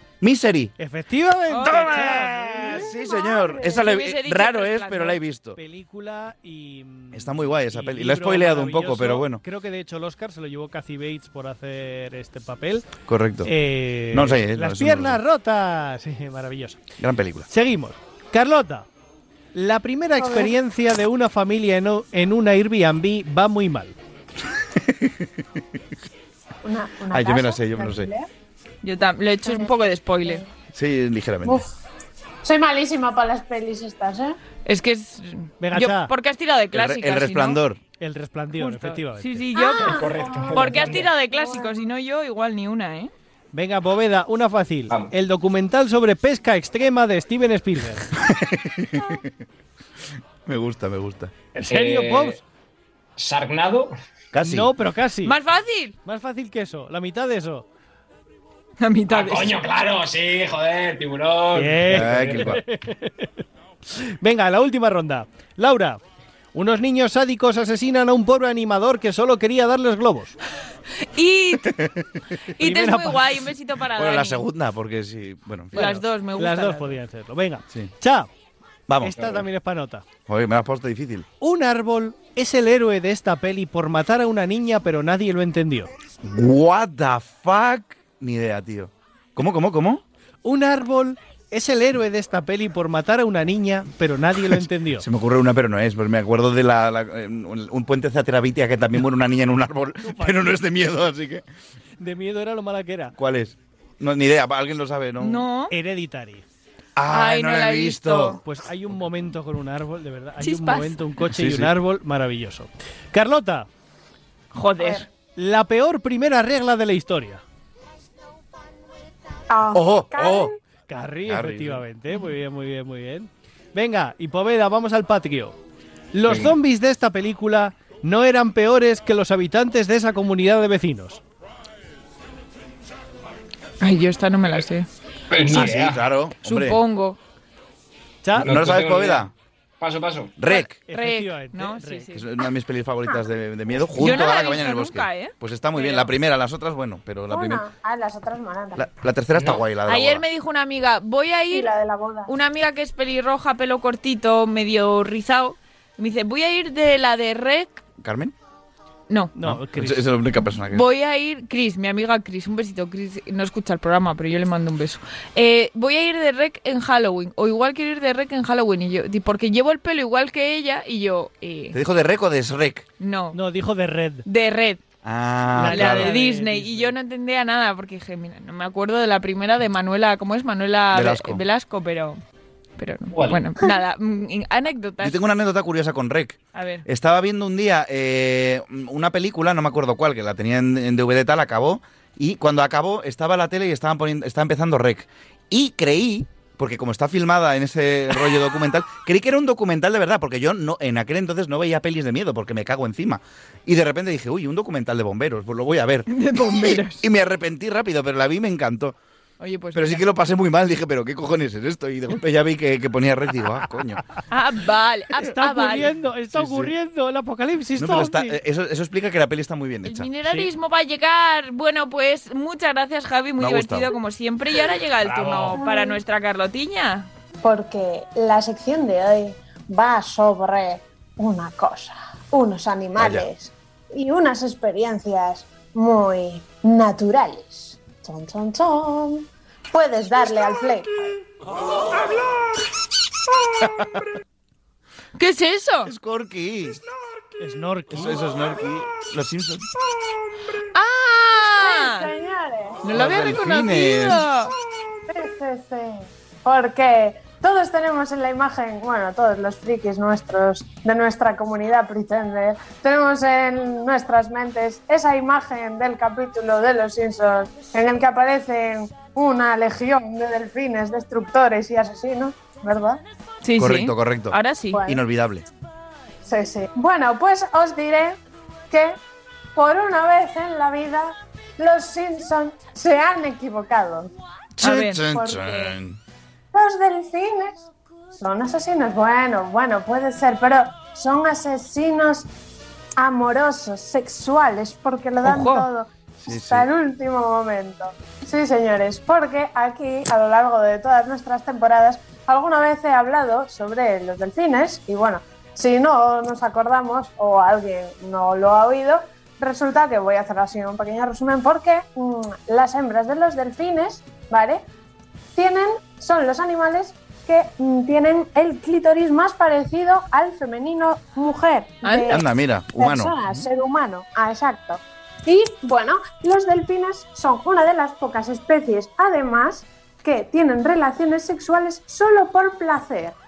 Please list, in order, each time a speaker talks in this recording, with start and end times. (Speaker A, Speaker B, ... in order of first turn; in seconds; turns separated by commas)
Speaker A: 0.2-0.7, Speaker B: 0.8-2.9, Speaker C: 1.5-2.2, Speaker A: 1.6-5.6, Speaker D: 2.6-3.8, Speaker C: 3.6-5.2, Speaker B: 5.6-16.8, Speaker A: 7.1-9.4, Speaker A: 13.1-13.5, Speaker A: 14.1-15.2, Speaker A: 17.0-17.5, Speaker B: 17.5-18.9, Speaker B: 19.6-23.9, Speaker D: 20.2-20.5, Speaker A: 24.7-25.6, Speaker D: 26.6-28.3, Speaker A: 27.1-28.1, Speaker C: 28.8-30.4, Speaker D: 29.5-29.7, Speaker A: 30.7-31.6, Speaker D: 31.4-31.7, Speaker D: 32.4-34.4, Speaker C: 34.7-37.6, Speaker B: 35.6-36.1, Speaker A: 36.7-37.8, Speaker B: 38.0-39.5, Speaker C: 38.5-43.1, Speaker D: 39.5-41.8, Speaker E: 39.8-41.1, Speaker B: 43.5-48.1, Speaker A: 48.2-49.3, Speaker A: 50.5-51.3, Speaker B: 51.5-52.4, Speaker E: 51.7-52.4, Speaker E: 53.2-53.9, Speaker A: 54.3-54.7, Speaker B: 54.4-55.4, Speaker C: 55.2-56.0, Speaker B: 56.0-57.6, Speaker C: 58.8-59.6, Speaker E: 59.1-62.6, Speaker B: 61.5-63.3, Speaker A: 61.9-62.6, Speaker B: 63.9-66.0, Speaker B: 66.5-70.4, Speaker C: 71.0-71.8, Speaker A: 71.7-72.0, Speaker C: 72.6-74.5, Speaker B: 72.6-73.3, Speaker A: 74.0-75.8, Speaker B: 75.7-78.3, Speaker C: 75.7-77.0, Speaker A: 78.9-79.4, Speaker B: 79.0-80.1, Speaker A: 80.3-81.3, Speaker B: 81.4-85.9, Speaker A: 86.2-90.0, Speaker B: 90.4-95.0, Speaker A: 95.0-101.4, Speaker B: 100.0-100.5, Speaker B: 102.0-103.2, Speaker A: 103.2-105.5, Speaker C: 105.2-105.7, Speaker B: 105.7-106.5, Speaker A: 107.0-108.4, Speaker C: 107.1-108.4, Speaker B: 108.4-113.7, Speaker C: 110.4-111.0, Speaker A: 111.3-111.7, Speaker C: 114.5-115.1, Speaker B: 115.3-117.4, Speaker D: 119.5-120.6, Speaker A: 119.7-120.5, Speaker B: 120.9-125.6, Speaker A: 121.3-121.8, Speaker B: 126.1-131.2, Speaker C: 133.8-134.9, Speaker E: 135.3-136.1, Speaker A: 135.5-136.8, Speaker C: 136.4-137.2, Speaker B: 138.2-138.5, Speaker A: 138.4-139.3, Speaker E: 138.4-139.3, Speaker E: 139.8-140.3, Speaker A: 140.4-140.8, Speaker C: 140.5-142.3, Speaker B: 140.8-142.1, Speaker A: 142.1-147.6, Speaker C: 144.0-146.1, Speaker D: 147.3-148.9, Speaker A: 148.8-150.2, Speaker E: 149.3-149.6, Speaker C: 149.9-151.7, Speaker D: 151.5-152.3, Speaker C: 152.3-157.8, Speaker A: 158.0-158.3, Speaker B: 159.3-160.1, Speaker A: 159.4-160.9, Speaker C: 160.7-171.8, Speaker A: 171.7-172.8, Speaker C: 173.0-173.4, Speaker B: 173.3-174.2, Speaker C: 174.2-174.8, Speaker A: 175.0-176.2, Speaker B: 175.5-176.9, Speaker C: 175.6-182.2, Speaker A: 180.9-181.4, Speaker C: 182.8-185.2, Speaker E: 183.1-183.4, Speaker A: 185.0-209.0, Speaker C: 186.5-186.8, Speaker C: 206.1-207.0, Speaker C: 209.4-210.1, Speaker A: 209.7-214.0, Speaker C: 214.3-215.9, Speaker B: 215.2-218.4, Speaker A: 216.3-216.7, Speaker A: 217.8-220.1, Speaker C: 219.8-227.1, Speaker A: 223.4-223.9, Speaker E: 225.1-225.6, Speaker D: 225.6-226.0, Speaker D: 227.4-241.1, Speaker A: 233.0-233.3, Speaker A: 243.6-243.9, Speaker C: 245.2-245.9, Speaker A: 245.9-246.8, Speaker B: 247.4-248.2, Speaker A: 247.9-249.7, Speaker C: 250.7-252.1, Speaker D: 251.6-252.9, Speaker C: 252.8-254.5, Speaker A: 252.9-254.3, Speaker D: 255.1-273.0, Speaker C: 273.4-274.8, Speaker A: 273.6-275.5, Speaker D: 274.7-275.0, Speaker D: 276.2-278.2, Speaker D: 278.7-279.0, Speaker D: 279.6-284.1, Speaker A: 284.6-286.0, Speaker C: 284.6-285.1, Speaker D: 285.1-285.8, Speaker D: 286.5-287.7, Speaker D: 288.2-292.3, Speaker D: 293.0-314.6, Speaker C: 295.2-295.7, Speaker A: 296.2-296.7, Speaker D: 315.4-333.2, Speaker C: 321.8-322.2, Speaker A: 322.1-323.4